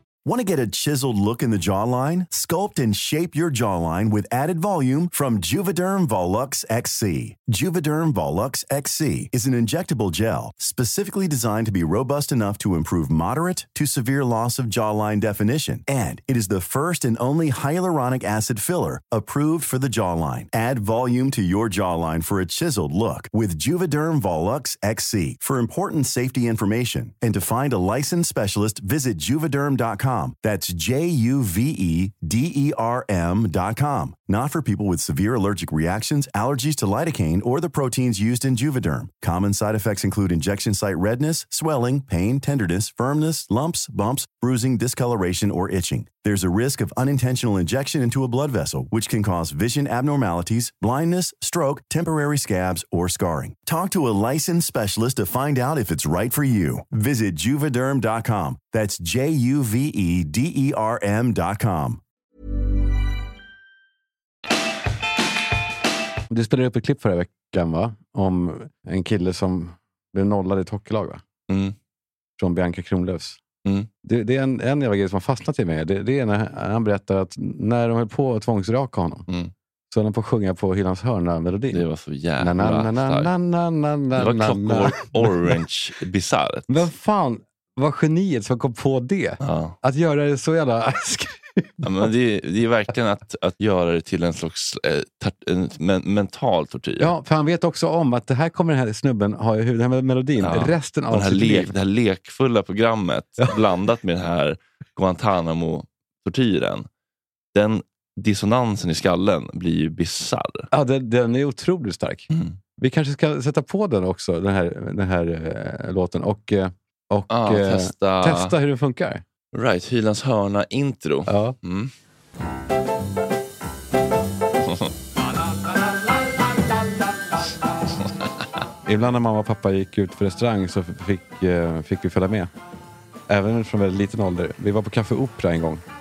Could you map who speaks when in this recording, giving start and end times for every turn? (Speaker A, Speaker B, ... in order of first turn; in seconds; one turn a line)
Speaker A: 0.2-62.0
Speaker B: 66.3-71.2
Speaker C: 71.5-71.8
Speaker B: 72.4-73.4
Speaker B: 74.0-79.2
Speaker B: 79.9-81.8
Speaker C: 81.7-83.3
Speaker B: 82.4-85.5
Speaker C: 84.2-86.8
Speaker B: 86.7-92.1
Speaker C: 89.4-89.8
Speaker C: 91.8-97.1
Speaker B: 97.0-101.7
Speaker C: 100.4-106.9
Speaker C: 107.5-110.7
Speaker B: 110.7-119.2
Speaker C: 112.3-112.6
Speaker C: 117.3-118.5
Speaker C: 119.5-121.9
Speaker B: 121.3-121.5
Speaker C: 124.7-124.9
Speaker B: 128.8-132.5
Speaker B: 133.3-135.8